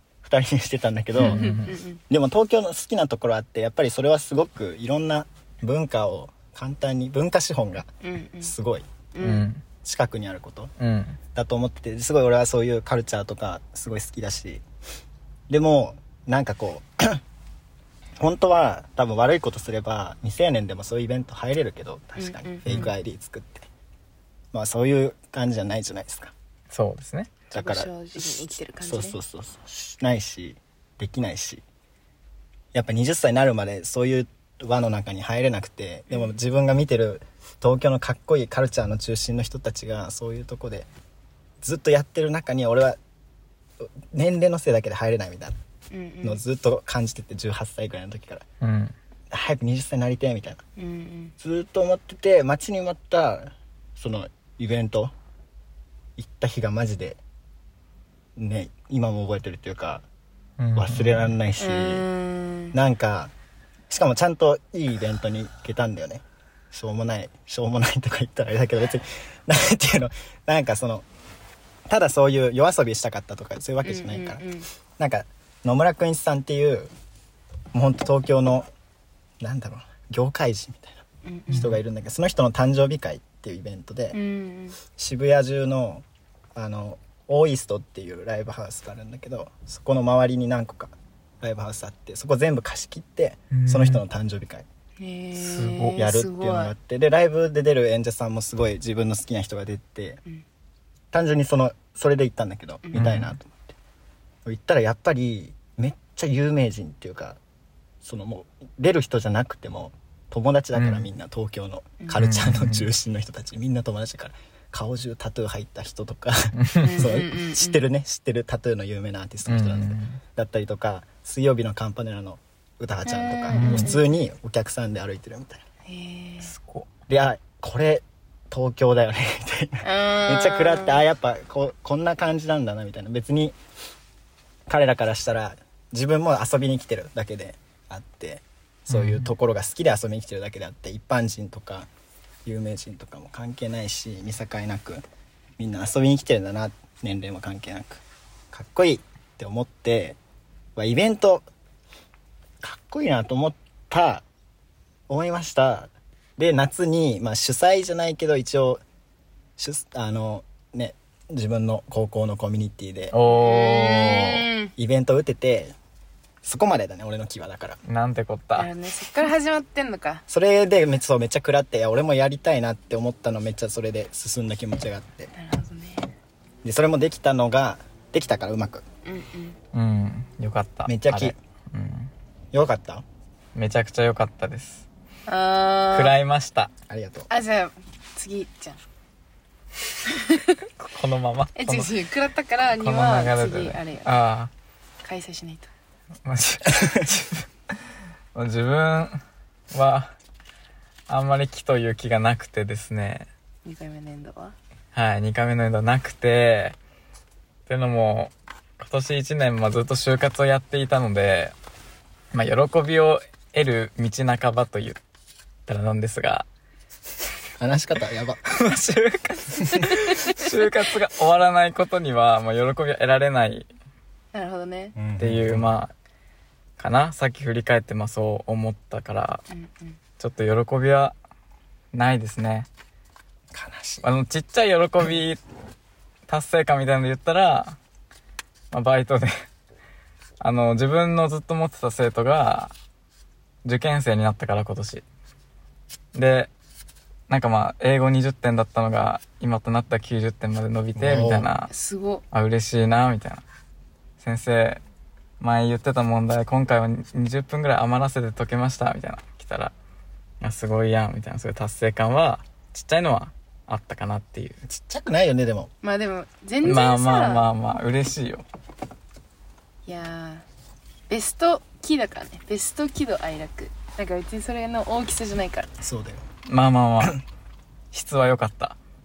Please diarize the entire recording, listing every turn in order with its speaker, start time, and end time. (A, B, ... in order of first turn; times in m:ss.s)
0:00.2-0:07.9 A
0:01.2-0:01.8 B
0:01.2-0:02.0 C
0:08.0-0:08.5 C
0:08.4-0:08.9 A
0:09.1-0:09.5 C
0:09.2-0:09.6 B
0:09.8-0:10.7 A
0:10.8-0:11.2 B
0:11.3-0:14.6 A
0:15.5-0:17.2 A
0:18.2-0:23.7 A
0:22.2-0:22.9 C
0:22.7-0:22.9 B
0:24.5-0:26.3 A
0:26.7-0:27.4 B
0:27.5-0:29.2 C
0:27.5-0:31.6 A
0:32.7-0:40.9 A
0:41.6-0:43.0 A
0:43.8-0:45.6 A
0:45.9-0:46.4 C
0:46.2-0:48.4 A
0:48.6-0:48.9 B
0:49.3-0:50.6 A
0:50.8-0:51.3 C
0:51.4-0:55.1 A
0:56.2-0:57.2 A
0:58.4-1:00.0 A
1:00.6-1:01.3 B
1:00.8-1:02.0 A
1:01.6-1:02.8 C
1:02.7-1:03.3 A
1:03.9-1:11.0 A
1:11.9-1:14.4 A
1:13.8-1:14.7 C
1:15.0-1:16.9 A
1:17.7-1:18.7 A
1:19.4-1:24.2 A
1:21.2-1:21.6 C
1:21.5-1:21.8 B
1:24.1-1:24.8 C
1:25.0-1:26.0 A
1:26.5-1:34.6 A
1:33.5-1:34.0 B
1:35.0-1:36.7 C
1:35.3-1:36.0 B
1:36.0-1:40.2 A
1:41.1-1:43.7 A
1:42.8-1:43.1 C
1:42.9-1:43.3 B
1:44.4-1:47.4 A
1:48.0-2:05.6 A
1:50.8-1:51.0 B
1:52.1-1:52.9 B
1:56.6-1:57.1 B
1:56.8-1:57.8 C
1:59.5-2:00.2 B
2:03.0-2:04.0 C
2:03.5-2:04.0 B
2:05.8-2:06.5 C
2:06.4-2:06.9 B
2:07.1-2:13.6 A
2:09.8-2:11.0 C
2:14.7-2:21.9 A
2:18.9-2:19.3 B
2:22.4-2:25.0 A
2:25.6-2:30.2 A
2:30.8-2:31.5 A
2:32.6-2:34.2 A
2:35.1-2:38.8 A
2:39.6-2:45.8 A
2:43.1-2:44.1 B
2:43.2-2:44.7 C
2:46.4-2:47.8 A
2:47.8-2:48.7 B
2:48.5-2:50.2 C
2:50.3-2:55.3 A
2:55.3-2:56.1 C
2:56.6-2:58.8 A
2:59.0-2:59.6 C
2:59.7-3:02.1 B
3:00.8-3:01.4 A
3:02.5-3:03.0 A
3:03.5-3:04.9 B
3:05.3-3:06.1 C
3:05.9-3:06.7 B
3:06.9-3:07.3 A
3:07.3-3:08.8 C
3:10.0-3:10.7 C
3:10.8-3:11.9 B
3:11.6-3:14.1 C
3:12.8-3:14.5 B
3:15.0-3:15.7 C
3:16.2-3:17.5 B
3:18.3-3:19.2 B
3:19.7-3:20.1 B
3:21.1-3:23.3 B
3:23.6-3:24.6 C
3:24.9-3:26.8 B
3:27.7-3:31.5 B
3:32.3-3:35.0 B
3:35.7-3:36.5 B
3:37.6-3:38.4 A
3:38.4-3:43.7 B
3:44.3-3:45.0 C
3:44.9-3:45.7 A
3:45.2-3:45.9 B
3:46.8-3:49.4 B
3:49.5-3:50.0 C
3:50.2-3:51.1 B
3:51.9-3:52.7 B
3:53.5-3:54.0 A
3:54.0-3:55.4 B
3:56.3-3:57.8 B
3:58.7-3:59.4 B
4:00.4-4:02.7 B
4:03.6-4:05.0 B
4:06.1-4:06.5 B
4:07.3-4:11.7 B
4:11.0-4:11.5 A
4:11.7-4:12.2 C
4:12.3-4:13.4 B
4:14.2-4:14.8 B
4:15.4-4:19.7 B
4:20.4-4:24.6 B
4:24.7-4:25.7 A
4:25.8-4:27.4 C
4:26.6-4:28.4 B
4:29.9-4:30.4 C
4:31.1-4:35.7 C
4:35.8-4:36.2 A
4:36.4-4:37.2 B
4:37.9-4:38.8 B